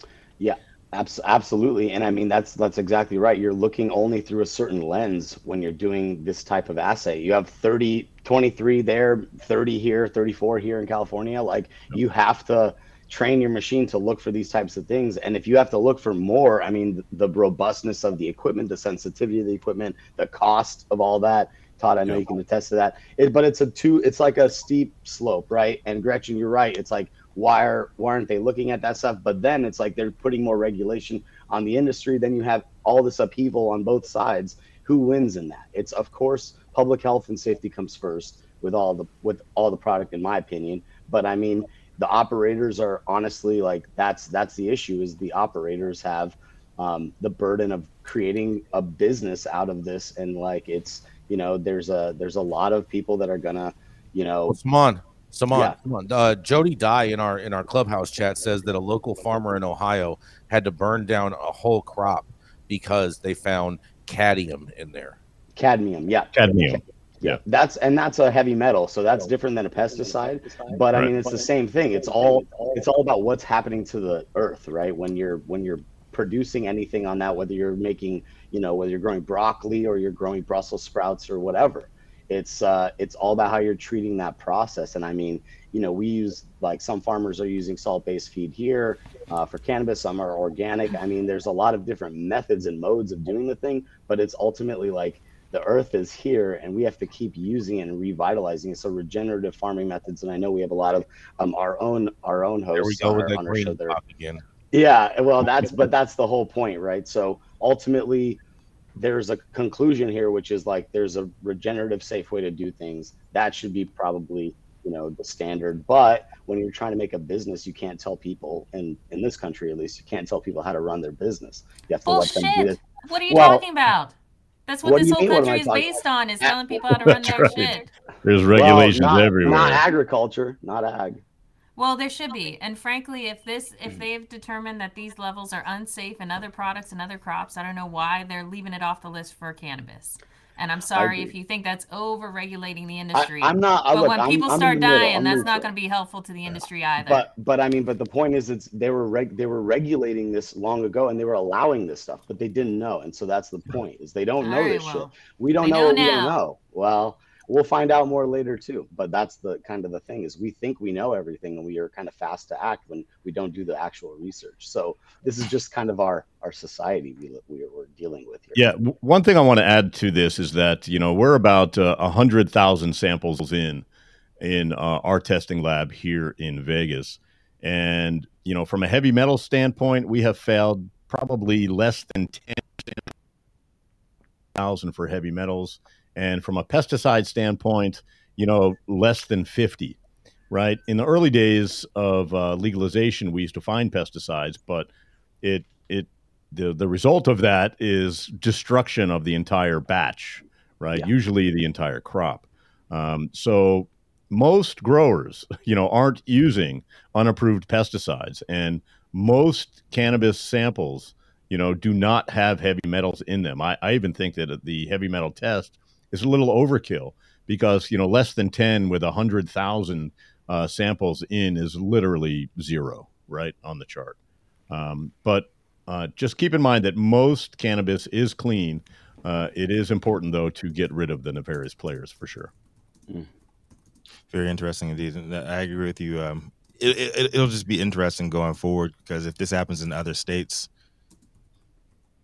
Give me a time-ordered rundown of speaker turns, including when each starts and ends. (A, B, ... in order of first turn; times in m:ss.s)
0:00.4-0:54.6 A
0:54.5-1:05.2 B
0:55.5-0:55.8 A
1:05.5-1:44.0 A
1:06.3-1:07.4 C
1:42.7-1:44.4 B
1:44.7-1:48.4 A
1:49.0-2:03.6 A
2:02.0-2:04.1 D
2:04.7-2:07.9 D
2:04.8-2:07.6 A
2:06.9-2:09.8 C
2:08.5-2:11.2 A
2:11.8-2:27.3 D
2:20.9-2:21.3 A
2:23.1-2:25.7 A
2:27.0-2:48.7 A
2:34.4-2:36.4 D
2:48.5-2:53.8 C
2:54.4-3:03.1 C
3:04.5-3:10.0 C
3:10.5-3:14.9 C
3:15.4-3:44.2 C
3:44.7-3:52.5 C
3:54.3-4:00.7 E